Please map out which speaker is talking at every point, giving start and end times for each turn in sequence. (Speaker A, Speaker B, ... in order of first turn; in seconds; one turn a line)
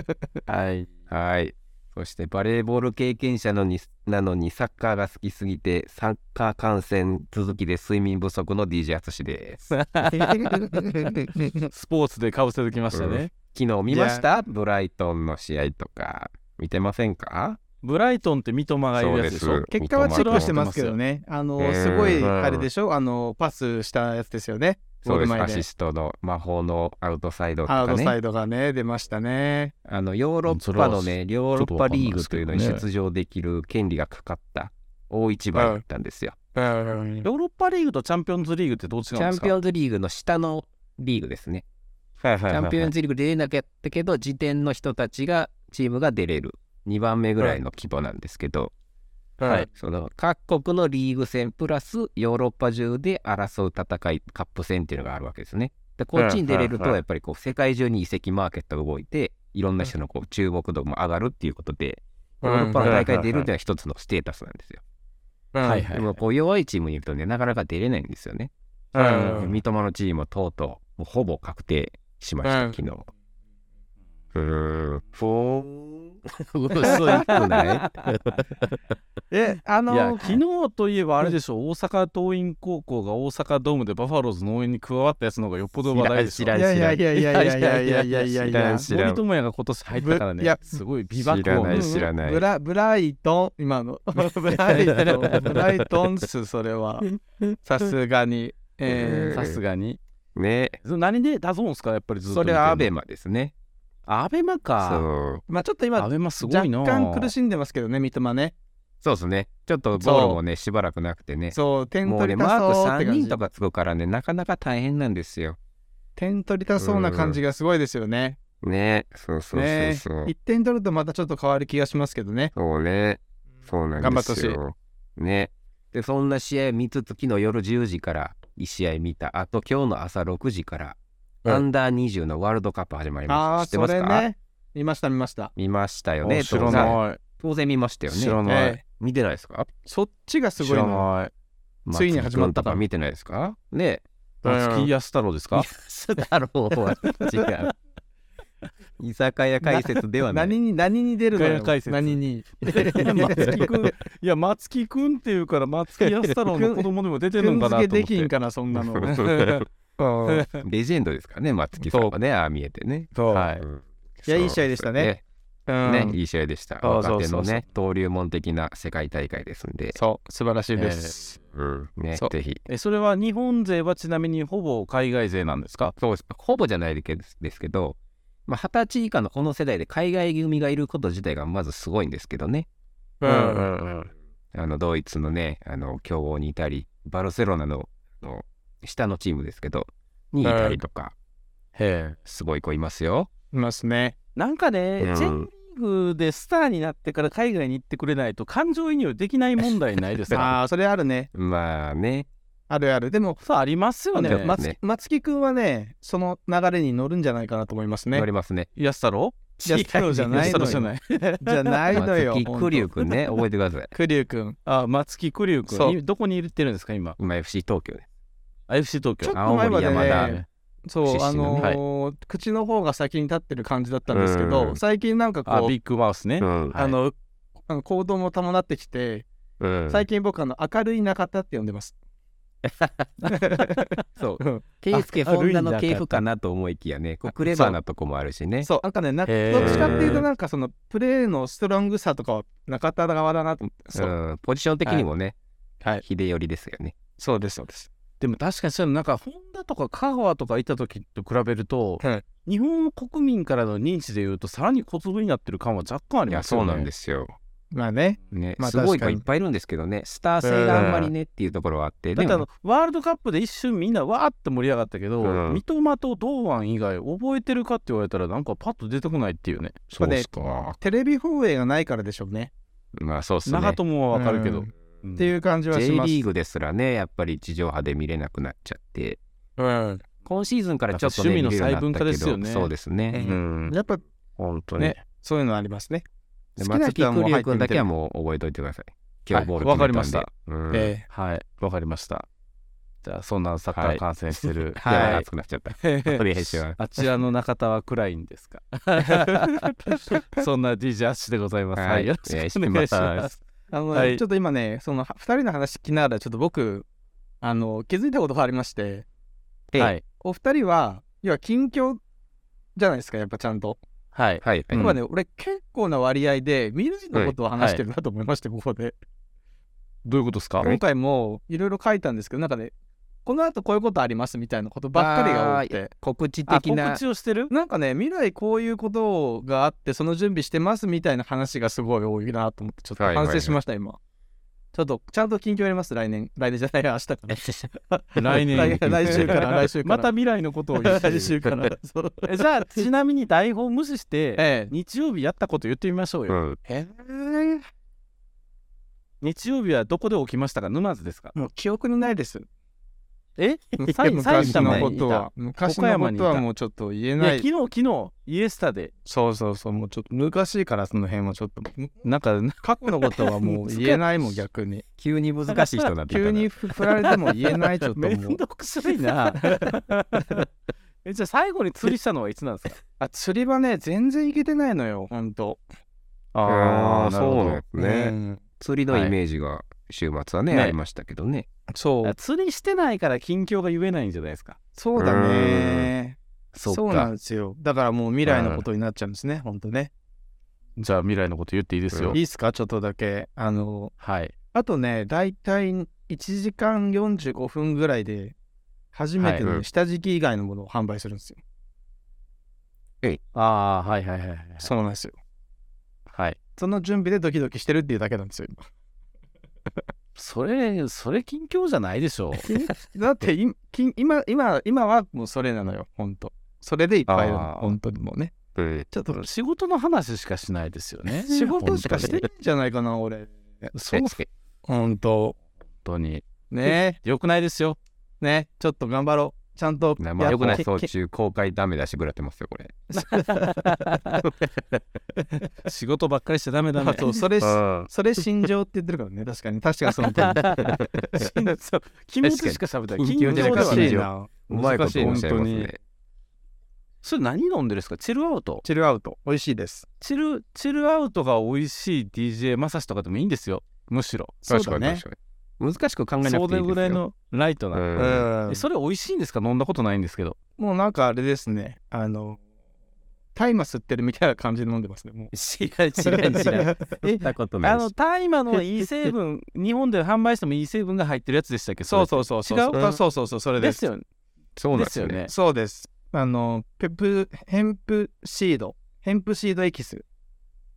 Speaker A: 0.5-0.9
Speaker B: 1.1-9.8
Speaker A: 9.7-10.6
Speaker C: 10.3-11.7
Speaker A: 11.7-13.3
Speaker B: 12.9-17.6
Speaker C: 13.9-14.2
Speaker A: 17.8-21.0
Speaker B: 19.0-20.5
Speaker C: 19.7-25.6
Speaker B: 21.6-22.7
Speaker B: 25.0-28.2
Speaker C: 27.7-29.7
Speaker B: 29.9-36.4
Speaker A: 30.5-32.9
Speaker C: 35.5-35.8
Speaker C: 36.5-37.3
Speaker A: 37.2-39.5
Speaker B: 39.1-41.6
Speaker A: 42.2-42.9
Speaker B: 42.5-48.7
Speaker C: 49.4-49.7
Speaker B: 49.7-64.8
Speaker A: 56.1-57.0
Speaker C: 62.4-63.0
Speaker A: 62.8-63.5
Speaker C: 65.5-65.9
Speaker A: 65.6-66.1
Speaker B: 65.9-68.5
Speaker A: 68.9-69.5
Speaker C: 69.0-69.5
Speaker B: 69.1-73.1
Speaker C: 72.4-72.8
Speaker B: 74.3-78.8
Speaker A: 76.7-78.0
Speaker C: 76.9-77.4
Speaker C: 79.3-80.4
Speaker A: 79.9-86.6
Speaker B: 85.9-87.0
Speaker C: 86.5-88.9
Speaker A: 87.1-92.0
Speaker B: 88.5-89.2
Speaker C: 90.0-90.7
Speaker B: 91.1-92.4
Speaker C: 91.7-97.1
Speaker A: 94.2-95.7
Speaker B: 95.3-95.8
Speaker C: 97.6-99.4
Speaker B: 98.9-99.6
Speaker A: 99.3-100.0
Speaker B: 100.4-100.8
Speaker A: 100.8-102.9
Speaker B: 102.3-103.5
Speaker A: 104.1-105.1
Speaker B: 104.8-105.4
Speaker C: 105.5-108.5
Speaker A: 106.0-107.3
Speaker B: 109.0-115.6
Speaker C: 110.0-110.4
Speaker C: 111.5-113.4
Speaker C: 116.2-118.4
Speaker B: 116.8-117.4
Speaker B: 118.6-120.3
Speaker C: 119.5-122.5
Speaker B: 122.5-134.3
Speaker C: 124.0-124.6
Speaker C: 133.3-135.5
Speaker B: 135.6-139.7
Speaker A: 136.2-137.2
Speaker C: 136.6-137.0
Speaker A: 138.1-138.8
Speaker C: 138.5-138.8
Speaker C: 139.8-141.1
Speaker A: 140.6-141.3
Speaker B: 141.9-144.0
Speaker C: 141.9-142.8
Speaker A: 144.4-145.7
Speaker C: 144.4-144.9
Speaker B: 145.5-147.7
Speaker A: 147.0-147.5
Speaker B: 149.0-150.6
Speaker C: 150.3-153.9
Speaker A: 151.3-158.3
Speaker C: 156.5-159.2
Speaker B: 158.7-159.6
Speaker A: 159.1-159.7
Speaker C: 160.0-160.5
Speaker A: 160.3-160.6
Speaker B: 160.6-165.2
Speaker C: 161.8-162.1
Speaker C: 163.1-163.5
Speaker A: 163.3-163.7
Speaker C: 164.3-165.1
Speaker C: 165.7-166.2
Speaker B: 165.8-170.0
Speaker C: 166.8-167.6
Speaker C: 169.9-171.4
Speaker A: 170.8-171.2
Speaker B: 171.5-172.6
Speaker A: 172.7-175.9
Speaker B: 176.0-182.7
Speaker C: 183.2-183.7
Speaker A: 183.2-184.1
Speaker B: 184.5-191.1
Speaker C: 190.4-190.8
Speaker A: 191.8-192.2
Speaker B: 192.3-193.3
Speaker C: 193.5-194.2
Speaker A: 194.4-200.5
Speaker B: 195.0-195.5
Speaker C: 200.3-201.3
Speaker B: 201.3-202.3
Speaker C: 202.7-203.4
Speaker A: 203.4-204.6
Speaker C: 204.1-208.3
Speaker B: 204.2-204.8
Speaker B: 208.1-208.7
Speaker A: 208.8-212.0
Speaker B: 209.6-210.9
Speaker C: 209.7-212.9
Speaker B: 211.9-213.9
Speaker C: 213.9-214.6
Speaker A: 214.7-217.2
Speaker C: 215.7-216.0
Speaker B: 217.2-218.1
Speaker A: 218.7-220.5
Speaker C: 219.2-225.8
Speaker B: 219.3-220.4
Speaker B: 221.0-221.7
Speaker B: 224.1-224.8
Speaker A: 225.5-227.0
Speaker B: 226.4-226.8
Speaker C: 226.8-227.2
Speaker C: 227.7-229.3
Speaker B: 229.6-230.1
Speaker C: 229.9-231.9
Speaker B: 232.7-233.3
Speaker C: 233.3-234.6
Speaker B: 234.2-238.7
Speaker A: 234.9-236.2
Speaker C: 238.6-244.1
Speaker A: 239.3-240.2
Speaker B: 239.5-240.2
Speaker B: 243.9-245.3
Speaker B: 246.0-246.9
Speaker C: 247.2-247.9
Speaker A: 248.2-256.9
Speaker B: 256.3-257.4
Speaker C: 257.7-259.2
Speaker B: 258.3-262.5
Speaker C: 260.4-261.1
Speaker A: 260.7-261.0
Speaker A: 262.1-269.9
Speaker B: 265.2-265.6
Speaker B: 269.9-270.8
Speaker C: 270.0-272.5
Speaker B: 273.0-273.8
Speaker A: 273.5-275.3
Speaker C: 274.1-276.2
Speaker B: 275.7-279.2
Speaker C: 279.6-280.0
Speaker B: 280.2-283.3
Speaker A: 280.9-282.7
Speaker C: 283.1-284.0
Speaker A: 283.2-283.7
Speaker A: 284.4-285.0
Speaker C: 284.8-286.1
Speaker B: 286.6-290.9
Speaker C: 286.6-287.9
Speaker A: 289.3-290.3
Speaker C: 290.7-291.1
Speaker A: 291.1-292.3
Speaker A: 293.0-295.3
Speaker B: 293.7-294.0
Speaker C: 294.8-295.2
Speaker B: 294.8-296.8
Speaker A: 295.8-303.3
Speaker C: 299.2-300.4
Speaker B: 301.8-303.4
Speaker C: 303.7-306.9
Speaker A: 303.9-304.2
Speaker C: 307.4-309.1
Speaker A: 309.8-310.0
Speaker C: 310.2-312.0
Speaker C: 312.8-313.8
Speaker A: 314.1-315.0
Speaker B: 314.4-314.9
Speaker C: 314.8-319.0
Speaker A: 320.1-320.7
Speaker C: 320.6-322.7
Speaker C: 323.2-325.9
Speaker B: 324.9-327.0
Speaker A: 326.5-327.5
Speaker C: 327.5-334.0
Speaker B: 333.0-333.6
Speaker C: 334.7-340.1
Speaker A: 338.2-341.2
Speaker B: 338.6-339.3
Speaker C: 340.8-342.8
Speaker A: 342.2-346.4
Speaker C: 344.4-344.7
Speaker B: 346.3-346.6
Speaker C: 346.6-347.6
Speaker A: 349.2-351.4
Speaker C: 351.4-352.5
Speaker A: 353.4-356.5
Speaker C: 353.8-357.5
Speaker B: 354.4-354.9
Speaker A: 357.2-358.9
Speaker C: 359.1-362.1
Speaker A: 362.0-364.0
Speaker C: 362.6-364.8
Speaker B: 365.0-366.5
Speaker C: 366.1-368.4
Speaker A: 367.1-370.5
Speaker C: 369.4-369.8
Speaker A: 371.1-372.8
Speaker C: 373.0-375.6
Speaker A: 376.3-377.6
Speaker B: 376.4-381.5
Speaker C: 377.8-378.4
Speaker A: 378.9-379.2
Speaker A: 380.5-380.8
Speaker C: 381.7-382.1
Speaker A: 382.0-384.6
Speaker C: 384.8-389.9
Speaker B: 385.0-385.9
Speaker B: 386.5-387.1
Speaker A: 388.3-388.6
Speaker A: 390.8-392.2
Speaker B: 391.9-392.2
Speaker C: 392.1-393.9
Speaker A: 394.0-394.3
Speaker C: 394.5-398.4
Speaker C: 398.9-401.4
Speaker A: 399.2-399.4
Speaker A: 403.3-404.7
Speaker C: 404.6-405.2
Speaker A: 406.1-406.4
Speaker C: 406.6-408.6
Speaker A: 410.2-412.5
Speaker C: 412.4-418.3
Speaker B: 417.1-417.8
Speaker B: 418.6-418.9
Speaker C: 418.9-419.3
Speaker A: 419.1-422.1
Speaker C: 421.3-423.7
Speaker B: 421.7-422.2
Speaker A: 423.7-424.2
Speaker B: 423.9-424.3
Speaker C: 424.7-425.4
Speaker A: 425.9-427.8
Speaker C: 426.5-427.0
Speaker C: 428.2-430.9
Speaker B: 430.0-432.8
Speaker A: 430.3-430.6
Speaker C: 432.9-433.9
Speaker A: 433.0-434.2
Speaker A: 435.6-437.2
Speaker C: 436.8-441.4
Speaker B: 437.4-437.9
Speaker A: 440.1-445.7
Speaker B: 440.8-441.2
Speaker B: 442.2-445.8
Speaker C: 443.2-445.3
Speaker A: 447.0-448.6
Speaker C: 448.6-449.9
Speaker A: 450.0-454.4
Speaker C: 454.5-455.0
Speaker B: 454.5-457.0
Speaker A: 456.2-460.4
Speaker B: 457.7-458.3
Speaker C: 458.0-458.6
Speaker C: 460.6-462.4
Speaker C: 463.4-465.3
Speaker B: 465.3-467.9
Speaker A: 465.6-472.9
Speaker C: 466.0-467.2
Speaker C: 471.9-473.8
Speaker A: 473.6-474.1
Speaker B: 474.6-475.3
Speaker A: 474.7-475.3
Speaker C: 475.3-480.0